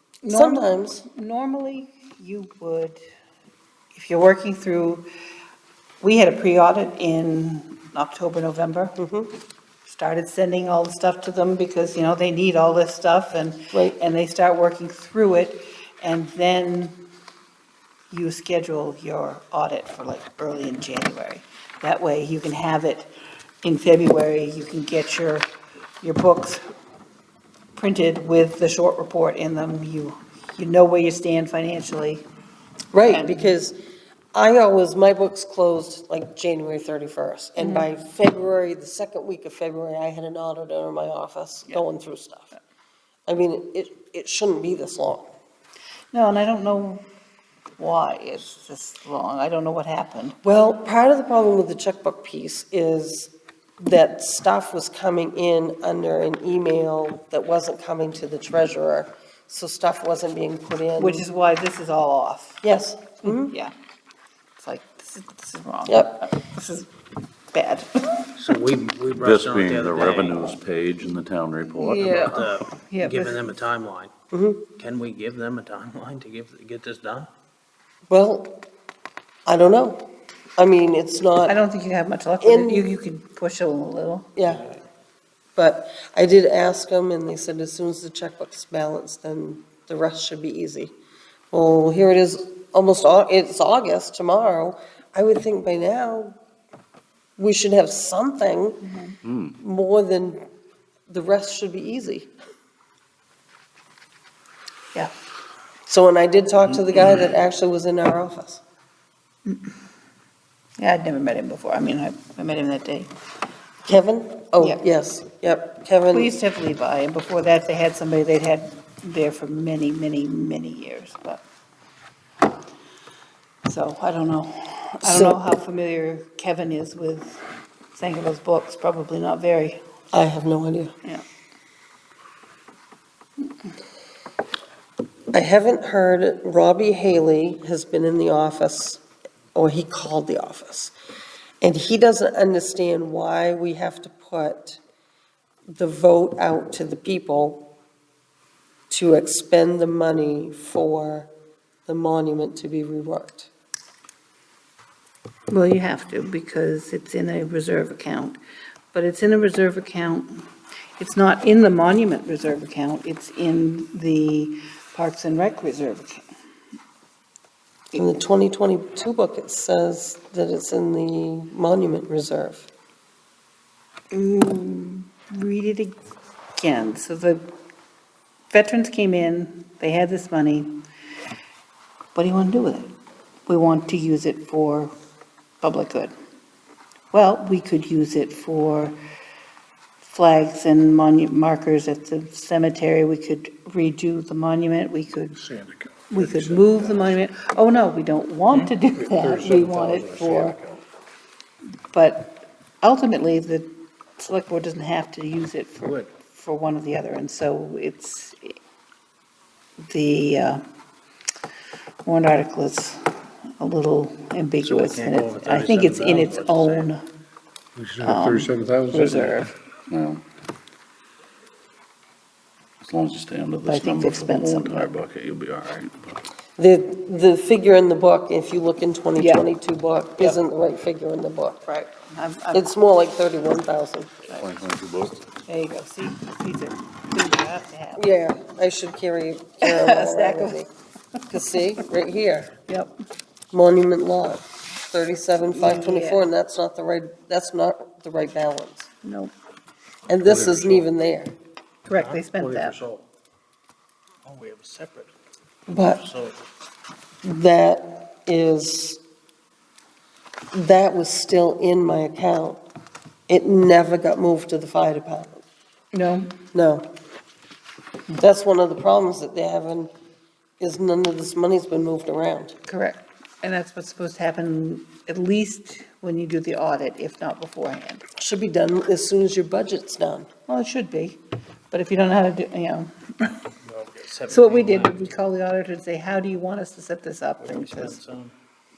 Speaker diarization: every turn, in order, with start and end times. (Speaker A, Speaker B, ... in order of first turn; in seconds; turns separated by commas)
Speaker A: 0.2-3.0, Speaker B: 0.3-1.0, Speaker A: 3.9-5.1, Speaker A: 6.0-9.0, Speaker B: 9.0-9.3, Speaker A: 9.8-17.0, Speaker A: 18.1-23.1, Speaker A: 23.6-25.5, Speaker A: 26.0-26.6, Speaker A: 27.8-32.2, Speaker B: 32.9-33.8, Speaker A: 33.0-33.5, Speaker B: 34.3-42.5, Speaker A: 37.6-37.9, Speaker B: 43.3-45.3, Speaker A: 46.1-47.1, Speaker A: 47.8-50.4, Speaker B: 50.4-61.2, Speaker A: 61.0-62.6, Speaker B: 62.6-63.5, Speaker A: 63.2-63.7, Speaker A: 64.6-66.9, Speaker B: 65.9-66.2, Speaker A: 67.5-68.1, Speaker C: 68.4-70.5, Speaker D: 69.1-72.3, Speaker A: 71.8-73.4, Speaker C: 72.0-74.1, Speaker B: 74.3-74.7, Speaker C: 74.8-77.3, Speaker B: 78.1-78.6, Speaker B: 79.5-80.1, Speaker B: 80.6-81.6, Speaker A: 81.5-84.3, Speaker B: 82.4-82.9, Speaker B: 84.4-84.7, Speaker B: 85.6-91.0, Speaker B: 91.5-96.4, Speaker B: 97.4-98.8, Speaker A: 98.8-99.2, Speaker D: 99.2-99.6, Speaker B: 99.6-100.5, Speaker B: 101.1-102.3, Speaker B: 105.9-108.6, Speaker A: 109.5-109.7, Speaker A: 110.8-113.1, Speaker B: 113.9-116.3, Speaker A: 116.1-121.4, Speaker A: 123.7-127.4, Speaker B: 125.0-125.4, Speaker A: 128.0-129.8, Speaker B: 130.1-130.9, Speaker B: 135.3-139.0, Speaker B: 139.6-140.9, Speaker B: 141.6-144.8, Speaker B: 145.7-147.7, Speaker B: 148.9-151.3, Speaker B: 151.9-153.5, Speaker A: 155.5-158.4, Speaker A: 158.9-160.5, Speaker A: 161.0-166.2, Speaker B: 167.9-172.7, Speaker A: 174.1-176.0, Speaker A: 176.6-177.5, Speaker A: 178.5-180.8, Speaker A: 182.1-182.9, Speaker A: 183.5-184.9, Speaker A: 185.6-186.1, Speaker A: 187.1-189.0, Speaker A: 190.0-195.4, Speaker E: 195.4-197.2, Speaker A: 196.1-200.6, Speaker E: 199.0-200.8, Speaker A: 201.9-208.6, Speaker A: 209.9-210.6, Speaker A: 212.0-217.0, Speaker C: 214.6-216.9, Speaker E: 217.8-219.4, Speaker A: 218.0-219.5, Speaker D: 219.9-220.2, Speaker D: 222.8-226.2, Speaker A: 223.7-224.9, Speaker B: 226.6-231.6, Speaker A: 229.2-229.4, Speaker A: 231.7-232.7, Speaker B: 232.5-234.1, Speaker D: 234.3-235.2, Speaker A: 235.5-238.1, Speaker B: 238.0-240.7, Speaker A: 239.6-240.6, Speaker B: 241.3-242.5, Speaker B: 243.5-248.9, Speaker A: 245.5-246.3, Speaker A: 249.0-249.3, Speaker B: 250.1-251.3, Speaker C: 250.3-250.8, Speaker A: 251.9-252.8, Speaker C: 251.9-253.1, Speaker C: 254.2-255.1, Speaker B: 255.7-256.0, Speaker C: 255.8-256.4, Speaker B: 257.2-259.0, Speaker B: 260.5-262.6, Speaker B: 263.3-265.4, Speaker A: 265.9-266.3, Speaker B: 266.5-266.9, Speaker B: 268.1-269.9, Speaker B: 270.6-272.6, Speaker A: 272.7-278.0, Speaker B: 278.2-280.3, Speaker A: 280.5-281.2, Speaker A: 281.7-283.4, Speaker C: 283.6-285.1, Speaker A: 284.3-288.0, Speaker C: 287.4-288.3